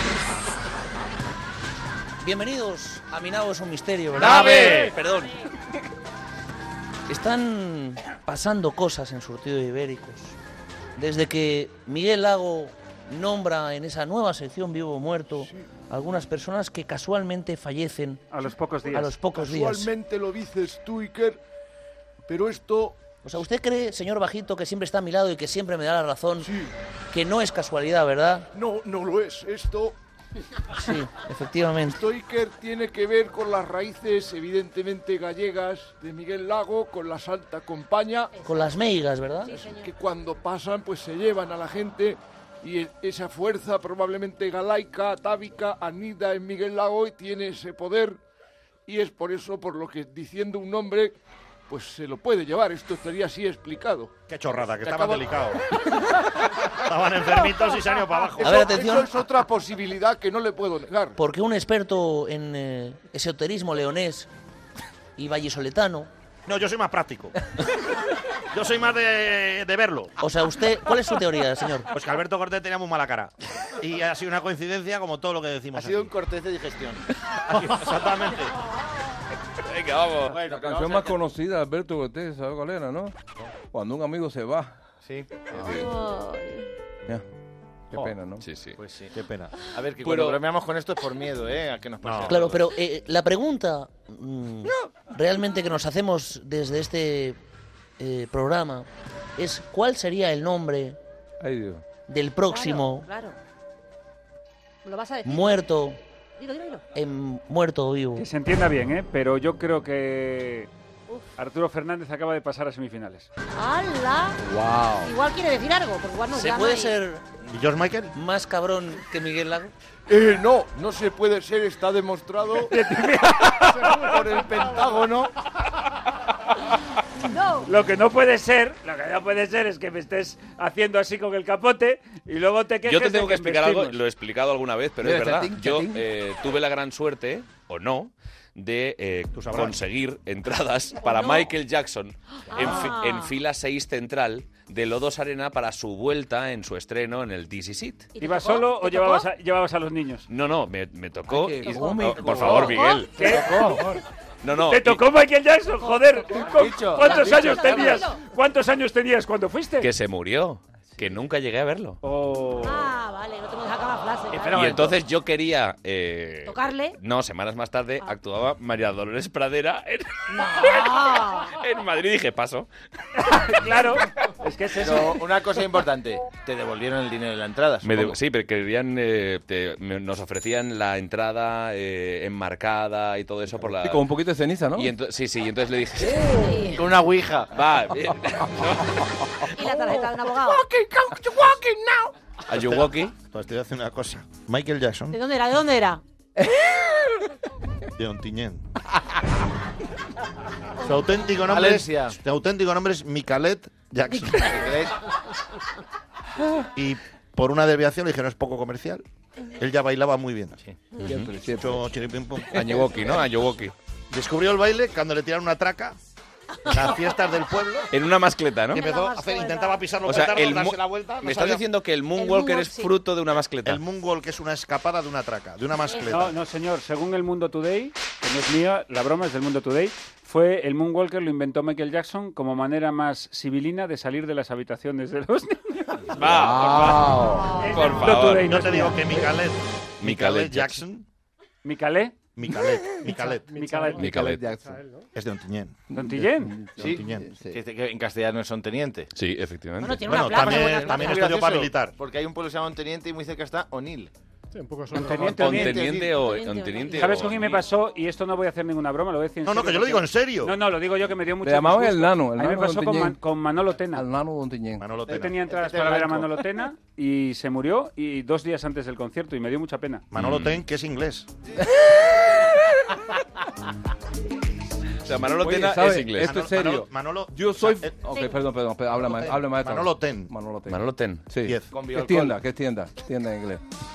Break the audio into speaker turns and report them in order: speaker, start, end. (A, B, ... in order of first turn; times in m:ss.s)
0:02.2-0:05.3 A
0:04.2-0:04.9 B
0:04.2-0:04.8 C
0:07.1-0:10.4 A
0:11.0-0:18.2 A
0:15.4-0:15.6 B
0:18.3-0:19.2 D
0:18.9-0:19.9 A
0:19.2-0:21.4 B
0:22.3-0:23.0 B
0:23.2-0:26.5 A
0:26.4-0:26.7 B
0:27.1-0:28.5 A
0:28.5-0:30.0 B
0:30.7-0:32.0 A
0:32.0-0:38.3 B
0:38.3-0:38.9 E
0:38.4-0:39.5 A
0:39.4-0:39.9 E
0:39.5-0:48.2 B
0:48.8-0:51.2 B
0:51.7-0:54.1 B
0:54.3-0:55.6 C
0:54.8-0:55.2 B
0:56.7-0:58.8 C
0:58.4-1:01.2 B
0:58.4-0:59.2 A
1:01.2-1:04.3 A
1:05.2-1:06.1 A
1:06.4-1:07.3 C
1:08.5-1:10.1 C
1:10.2-1:11.9 A
1:11.9-1:16.1 C
1:15.7-1:17.0 F
1:17.4-1:18.5 C
1:19.6-1:20.4 G
1:20.3-1:21.2 F
1:20.4-1:23.2 H
1:23.7-1:24.7 H
1:25.0-1:25.5 F
1:25.5-1:25.8 G
1:25.6-1:26.7 E
1:27.9-1:28.4 H
1:28.4-1:28.8 G
1:28.8-1:32.6 F
1:29.1-1:29.5 C
1:30.0-1:30.4 G
1:32.0-1:32.4 C
1:32.3-1:37.4 A
1:38.0-1:41.0 A
1:41.4-1:41.8 H
1:42.1-1:43.1 A
1:42.4-1:43.4 E
1:44.8-1:45.6 E
1:45.2-1:46.0 A
1:46.4-1:46.8 E
1:46.9-1:48.2 A
1:48.2-1:50.7 D
1:51.4-1:53.3 D
1:53.5-1:54.4 E
1:54.4-1:55.1 H
1:55.0-1:57.0 E
1:56.3-1:57.2 A
1:57.5-1:58.1 C
1:58.1-1:59.7 A
2:00.1-2:02.7 B
2:02.7-2:04.1 D
2:04.0-2:05.2 B
2:04.7-2:05.3 F
2:07.2-2:07.7 E
2:07.6-2:14.0 D
2:12.8-2:28.1 G
2:15.0-2:16.0 H
2:19.3-2:19.8 C
2:21.0-2:21.5 E
2:22.5-2:23.3 E
2:28.1-2:29.3 E
2:28.2-2:30.3 D
2:30.3-2:33.4 G
2:31.3-2:32.8 H
2:31.7-2:33.3 E
2:33.1-2:33.9 D
2:33.2-2:33.9 F
2:34.4-2:35.0 G
2:34.6-2:39.9 D
2:35.8-2:38.2 E
2:36.4-2:38.0 F
2:39.8-2:42.0 G
2:42.0-2:42.9 D
2:42.6-2:44.8 E
2:44.3-2:45.0 F
2:44.5-2:52.7 G
2:46.4-2:47.0 E
2:50.3-2:51.6 E
2:53.2-2:55.2 D
2:54.8-2:58.2 F
2:57.8-3:04.0 G
3:03.7-3:04.9 H
3:04.7-3:06.4 G
3:06.3-3:06.8 E
3:06.7-3:07.5 F
3:07.5-3:09.1 G
3:09.6-3:10.6 E
3:09.7-3:12.1 B
3:12.5-3:13.1 G
3:13.3-3:15.2 C
3:15.1-3:16.0 E
3:18.0-3:18.6 C
3:20.8-3:24.7 C
3:21.4-3:22.2 F
3:24.4-3:24.9 F
3:26.7-3:29.0 C
3:29.6-3:30.6 C
3:31.0-3:31.9 H
3:31.0-3:31.3 G
3:31.5-3:32.9 C
3:32.5-3:33.7 G
3:34.1-3:36.0 C
3:36.6-3:37.9 C
3:37.9-3:38.8 G
3:38.7-3:41.6 C
3:38.7-3:40.0 E
3:40.0-3:43.8 G
3:42.2-3:42.9 E
3:43.6-3:46.3 C
3:46.1-3:56.0 D
3:56.1-3:58.6 G
3:56.2-3:57.6 H
3:57.6-3:59.3 D
3:58.2-4:01.0 C
4:00.0-4:00.8 G
4:01.6-4:02.2 D
4:02.4-4:03.5 C
4:03.2-4:05.1 I
4:03.5-4:04.1 D
4:03.9-4:04.8 H
4:04.0-4:04.4 G
4:05.1-4:05.8 C
4:05.9-4:06.6 D
4:05.9-4:07.6 H
4:06.8-4:07.3 C
4:06.8-4:09.1 F
4:09.1-4:10.2 G
4:09.8-4:11.4 E
4:10.0-4:12.0 C
4:10.3-4:14.1 F
4:14.5-4:15.3 I
4:14.9-4:15.9 D
4:15.0-4:16.2 F
4:15.0-4:17.6 G
4:16.2-4:17.0 E
4:16.9-4:24.0 D
4:19.4-4:20.6 C
4:21.4-4:23.2 H
4:23.9-4:24.9 H
4:24.8-4:25.5 C
4:25.0-4:26.4 F
4:25.1-4:30.1 D
4:30.1-4:31.3 C
4:30.1-4:30.6 G
4:35.0-4:36.4 G
4:35.2-4:43.6 H
4:36.2-4:38.0 C
4:38.1-4:38.4 E
4:39.0-4:40.3 C
4:40.7-4:41.3 G
4:41.4-4:41.7 C
4:41.7-4:42.4 F